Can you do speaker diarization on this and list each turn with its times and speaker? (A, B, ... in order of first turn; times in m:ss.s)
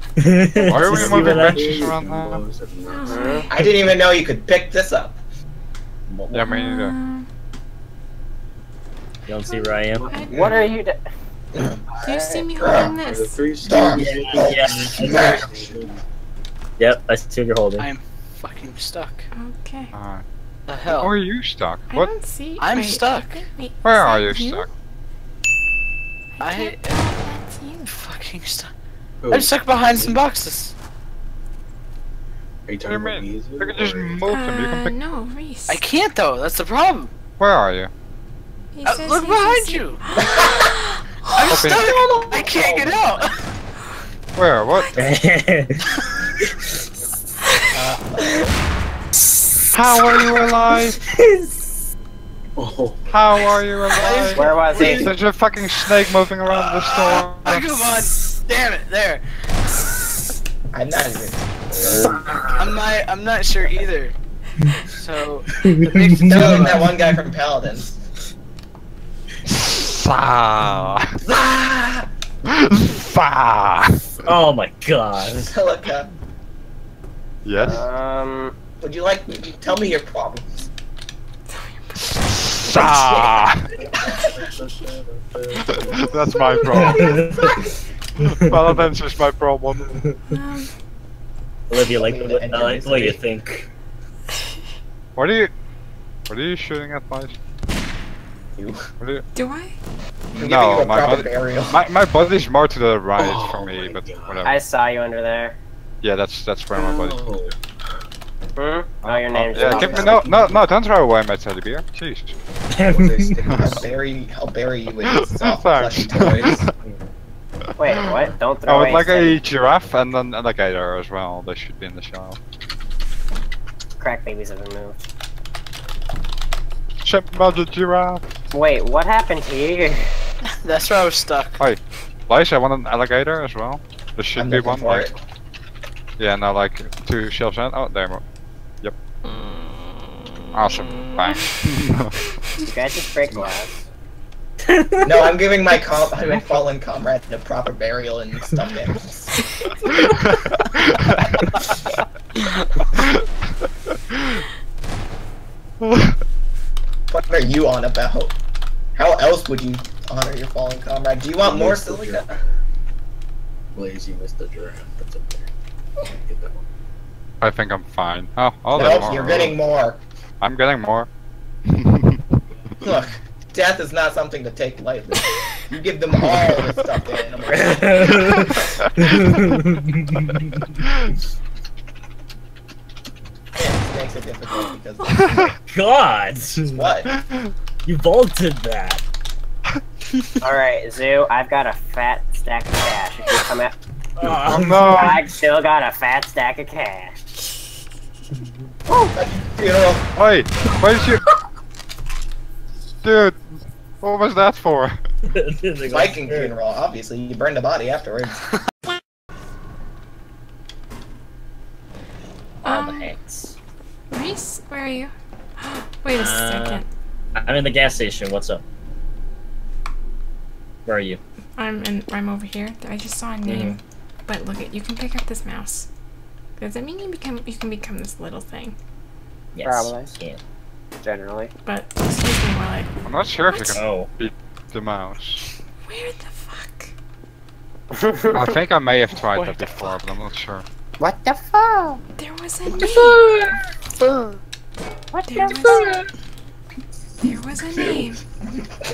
0:00.2-0:01.9 A
0:00.6-0:02.4 B
0:00.8-0:03.4 C
0:02.8-0:03.5 D
0:03.1-0:03.4 E
0:03.5-0:05.2 F
0:06.1-0:06.5 A
0:06.3-0:07.0 B
0:06.4-0:07.3 D
0:09.3-0:10.2 A
0:09.4-0:10.5 D
0:09.8-0:10.8 C
0:10.3-0:11.0 E
0:11.5-0:11.8 F
0:12.0-0:13.4 D
0:12.0-0:12.5 E
0:12.6-0:13.0 F
0:12.7-0:16.0 C
0:13.6-0:15.4 F
0:13.9-0:15.5 A
0:16.8-0:17.9 A
0:17.8-0:19.3 G
0:19.3-0:19.9 D
0:19.9-0:20.2 B
0:20.7-0:21.1 G
0:20.9-0:22.2 B
0:21.9-0:24.7 D
0:22.6-0:23.4 G
0:23.8-0:24.7 B
0:26.4-0:27.9 D
0:26.4-0:27.1 G
0:27.8-0:28.7 G
0:29.2-0:30.2 C
0:29.3-0:30.7 G
0:32.7-0:34.3 C
0:32.8-0:35.0 B
0:34.2-0:35.8 D
0:35.7-0:37.1 G
0:37.4-0:37.9 B
0:38.7-0:41.3 D
0:38.8-0:40.0 G
0:40.2-0:40.7 F
0:41.3-0:43.3 G
0:41.5-0:41.9 B
0:41.5-0:43.3 F
0:44.3-0:44.9 B
0:44.7-0:45.2 D
0:44.9-0:45.8 A
0:47.7-0:48.5 F
0:49.7-0:51.0 B
0:50.0-0:51.7 A
0:52.6-0:53.1 C
0:53.1-0:57.7 B
0:53.9-0:55.0 G
0:54.3-0:55.1 E
0:56.4-0:59.2 G
1:00.7-1:01.4 F
1:01.7-1:02.5 C
1:02.5-1:04.1 G
1:05.0-1:06.9 G
1:05.6-1:06.9 A
1:06.3-1:08.0 F
1:09.5-1:11.1 B
1:11.2-1:12.1 F
1:12.4-1:14.0 B
1:14.2-1:15.5 A
1:15.4-1:16.1 F
1:17.4-1:17.8 B
1:17.6-1:18.6 E
1:18.8-1:20.7 F
1:21.5-1:22.1 D
1:22.4-1:23.6 B
1:23.0-1:27.2 C
1:25.9-1:27.2 B
1:26.7-1:27.6 A
1:28.2-1:29.8 B
1:30.3-1:30.7 D
1:31.7-1:33.7 A
1:31.9-1:33.2 F
1:32.6-1:33.2 C
1:35.2-1:35.5 B
1:36.3-1:37.4 B
1:38.6-1:38.8 F
1:39.0-1:39.2 B
1:39.3-1:39.8 D
1:40.4-1:41.8 F
1:40.4-1:44.6 B
1:43.2-1:44.5 C
1:44.4-1:45.6 E
1:46.0-1:47.3 B
1:46.7-1:47.9 C
1:48.6-1:50.2 E
1:49.0-1:52.3 B
1:49.5-1:50.7 C
1:52.7-1:53.4 A
1:52.8-1:53.9 C
1:53.6-1:56.6 F
1:55.0-1:56.7 B
1:57.8-1:59.4 E
1:58.6-2:02.4 B
2:04.0-2:05.0 E
2:07.0-2:08.2 B
2:08.5-2:10.1 E
2:10.4-2:11.6 G
2:11.6-2:15.1 B
2:14.4-2:15.2 F
2:16.2-2:18.2 B
2:20.5-2:22.1 B
2:22.6-2:23.7 E
2:24.7-2:25.1 A
2:25.0-2:29.4 F
2:29.9-2:31.2 B
2:35.8-2:36.1 B
2:37.1-2:38.3 F
2:39.0-2:42.4 F
2:41.4-2:42.5 C
2:43.7-2:45.5 C
2:46.0-2:46.6 C
2:47.4-2:49.6 B
2:48.7-2:50.0 F
2:50.4-2:51.1 B
2:51.8-2:52.2 B
2:52.8-2:58.1 F
2:57.5-3:00.6 A
2:58.2-2:59.3 B
3:00.8-3:01.1 B
3:03.6-3:05.5 F
3:05.7-3:06.9 A
3:06.7-3:07.1 F
3:07.0-3:07.5 B
3:07.8-3:09.0 A
3:10.4-3:13.8 E
3:14.2-3:15.1 A
3:14.4-3:15.2 B
3:14.8-3:17.2 E
3:18.9-3:20.1 F
3:20.2-3:21.2 B
3:23.0-3:25.0 B
3:25.3-3:26.5 A
3:25.9-3:28.4 F
3:32.6-3:33.1 D
3:32.6-3:33.5 A
3:34.1-3:36.9 D
3:36.1-3:36.8 A
3:37.3-3:38.6 A
3:40.8-3:41.2 A
3:41.6-3:45.9 D
3:43.4-3:43.8 A
3:46.6-3:48.8 D
3:49.5-3:50.4 A
3:49.6-3:50.1 E
3:51.0-3:51.5 E
3:51.6-3:52.9 D
3:53.0-3:55.4 B
3:53.5-3:53.8 D
3:53.7-3:54.1 A
3:55.8-3:56.9 D
3:57.9-3:58.5 E
3:58.3-4:00.6 B
3:59.4-3:59.8 G
4:01.0-4:02.0 E
4:02.2-4:03.3 D
4:04.0-4:04.3 G
4:05.1-4:05.9 E
4:05.3-4:06.0 D
4:05.4-4:06.0 G
4:07.2-4:08.2 D
4:07.8-4:08.1 F